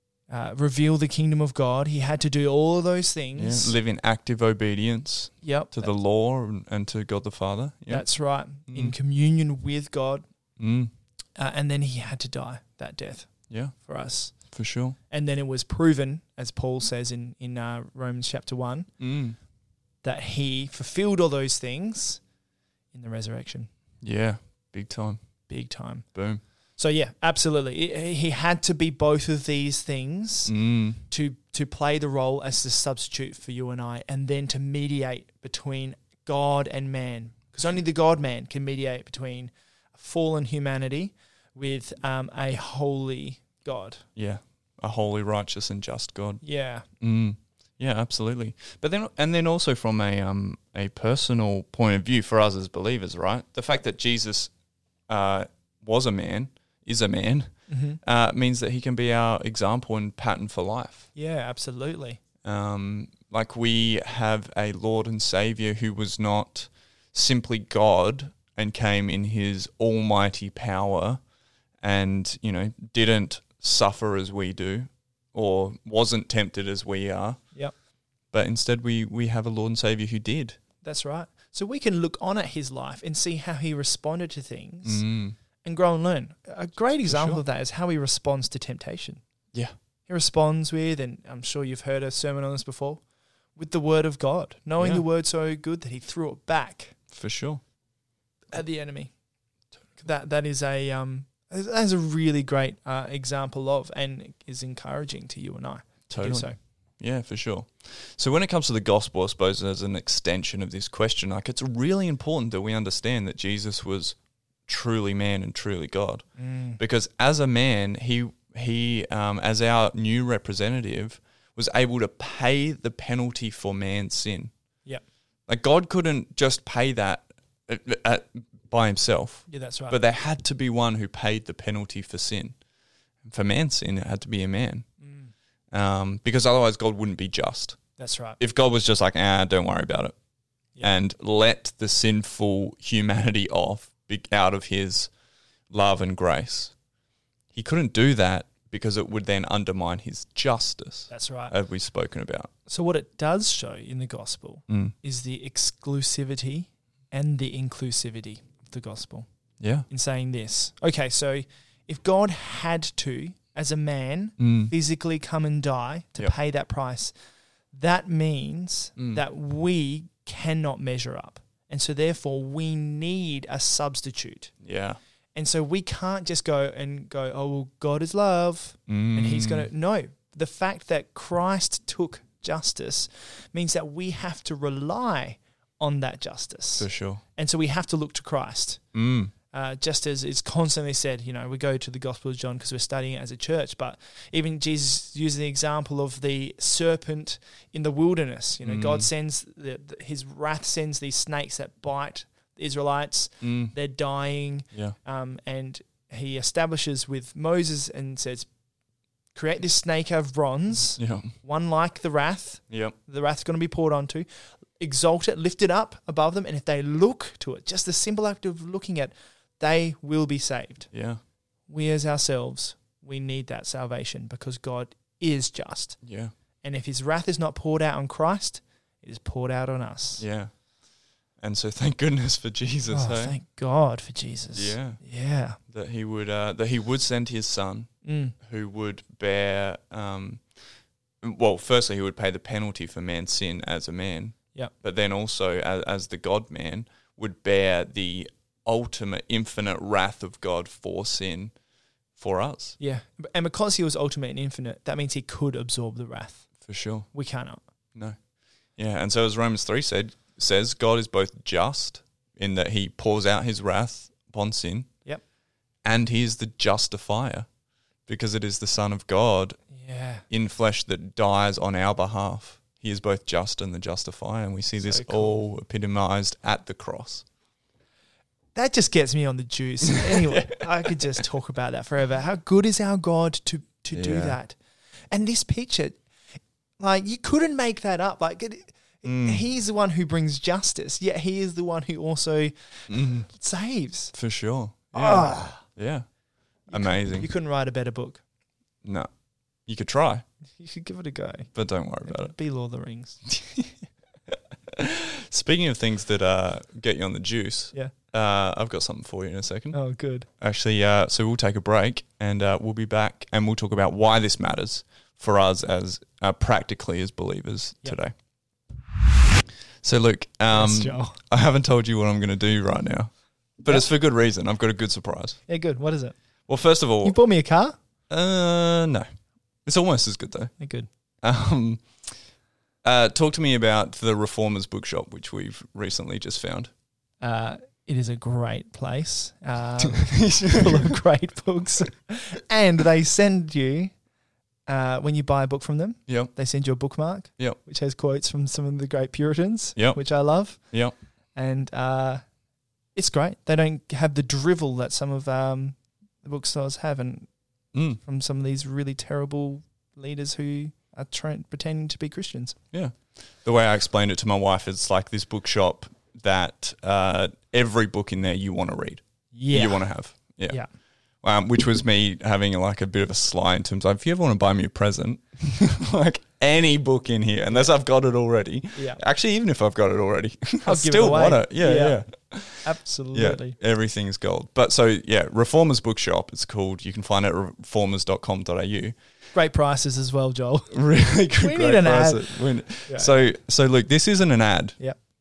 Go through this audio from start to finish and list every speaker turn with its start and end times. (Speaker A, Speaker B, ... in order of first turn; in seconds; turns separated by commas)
Speaker A: 0.3-3.7, Speaker B: 3.4-8.1, Speaker A: 5.4-5.9, Speaker A: 7.9-10.2, Speaker B: 8.7-8.9, Speaker B: 10.6-10.9, Speaker A: 11.4-14.3, Speaker B: 14.5-15.0, Speaker A: 15.1-18.9, Speaker B: 19.0-19.4, Speaker A: 20.0-22.2, Speaker A: 22.9-23.7, Speaker B: 24.0-25.2, Speaker A: 25.5-26.1, Speaker B: 26.1-26.4, Speaker A: 26.8-30.5, Speaker B: 30.5-31.0, Speaker A: 31.1-44.0, Speaker B: 44.2-46.4, Speaker A: 46.4-46.9, Speaker B: 47.0-54.5, Speaker B: 55.1-57.5, Speaker A: 57.7-58.0, Speaker B: 58.0-61.1, Speaker A: 61.2-62.2, Speaker B: 62.4-71.2, Speaker B: 71.8-77.4, Speaker B: 78.3-80.6, Speaker A: 80.8-85.0, Speaker B: 84.8-85.4, Speaker A: 85.6-89.2, Speaker B: 87.1-87.4, Speaker A: 90.1-93.0, Speaker A: 93.6-97.0, Speaker B: 94.8-95.0, Speaker B: 97.1-97.6, Speaker A: 98.5-99.1, Speaker A: 100.0-106.6, Speaker B: 106.1-106.5, Speaker B: 107.0-116.2, Speaker A: 116.4-116.8, Speaker B: 116.8-124.5, Speaker B: 125.5-132.6, Speaker A: 129.5-130.0, Speaker B: 133.2-134.9, Speaker A: 135.0-135.3, Speaker B: 135.7-137.8, Speaker A: 138.0-138.4, Speaker B: 138.4-140.2, Speaker B: 140.8-145.1, Speaker B: 145.7-146.7, Speaker B: 147.5-152.5, Speaker A: 151.1-151.6, Speaker A: 152.7-159.3, Speaker B: 154.7-154.9, Speaker B: 159.6-159.9, Speaker A: 159.9-167.1, Speaker B: 164.4-164.7, Speaker A: 167.7-174.5, Speaker B: 169.0-169.2, Speaker B: 174.6-175.0, Speaker A: 175.3-188.8, Speaker B: 178.9-179.7, Speaker B: 186.8-187.2, Speaker B: 188.9-189.3, Speaker A: 189.5-208.5, Speaker B: 198.6-199.1, Speaker B: 203.4-203.7, Speaker A: 209.3-214.3, Speaker B: 211.0-211.3, Speaker B: 212.7-212.9, Speaker A: 214.8-220.9, Speaker B: 220.9-221.2, Speaker A: 221.7-226.0, Speaker B: 226.0-226.3, Speaker A: 226.6-230.2, Speaker B: 230.2-230.5, Speaker B: 231.4-233.3, Speaker A: 232.9-235.6, Speaker B: 234.5-235.0, Speaker B: 235.7-237.9, Speaker A: 238.0-238.4, Speaker B: 238.4-240.4, Speaker B: 241.2-251.5, Speaker B: 252.2-252.8, Speaker A: 252.8-256.5, Speaker B: 256.6-257.1, Speaker A: 257.1-257.6, Speaker B: 258.8-264.9, Speaker B: 265.8-267.5, Speaker B: 268.1-269.6, Speaker A: 269.7-270.2, Speaker B: 270.3-277.2, Speaker A: 274.8-275.4, Speaker A: 278.6-284.6, Speaker B: 279.9-280.9, Speaker B: 283.9-284.4, Speaker A: 285.1-286.0, Speaker A: 286.8-294.1, Speaker B: 289.0-289.4, Speaker B: 292.9-293.3, Speaker B: 294.1-296.1, Speaker A: 294.9-295.6, Speaker A: 296.7-298.2, Speaker B: 296.7-297.3, Speaker B: 298.8-299.1, Speaker B: 299.7-300.2, Speaker A: 300.6-301.5, Speaker B: 301.5-302.3, Speaker A: 302.1-303.3, Speaker B: 304.7-309.8, Speaker A: 309.7-310.3, Speaker B: 310.4-318.1, Speaker B: 319.8-325.4, Speaker A: 320.5-321.2, Speaker A: 325.5-326.1, Speaker B: 326.5-327.2, Speaker A: 327.0-327.8, Speaker B: 328.1-329.1, Speaker B: 329.7-330.5, Speaker A: 330.6-330.9, Speaker B: 331.2-331.9, Speaker B: 332.8-336.7, Speaker A: 337.2-343.9, Speaker B: 339.9-341.0, Speaker A: 344.7-350.6, Speaker A: 351.4-352.2, Speaker A: 353.0-357.3, Speaker B: 357.7-358.0, Speaker A: 358.0-362.6, Speaker B: 362.7-370.6, Speaker A: 369.3-369.9, Speaker B: 371.2-389.0, Speaker A: 378.8-379.0, Speaker A: 380.6-382.0, Speaker A: 382.6-383.6, Speaker A: 389.3-390.8, Speaker B: 390.7-394.8, Speaker A: 391.4-393.1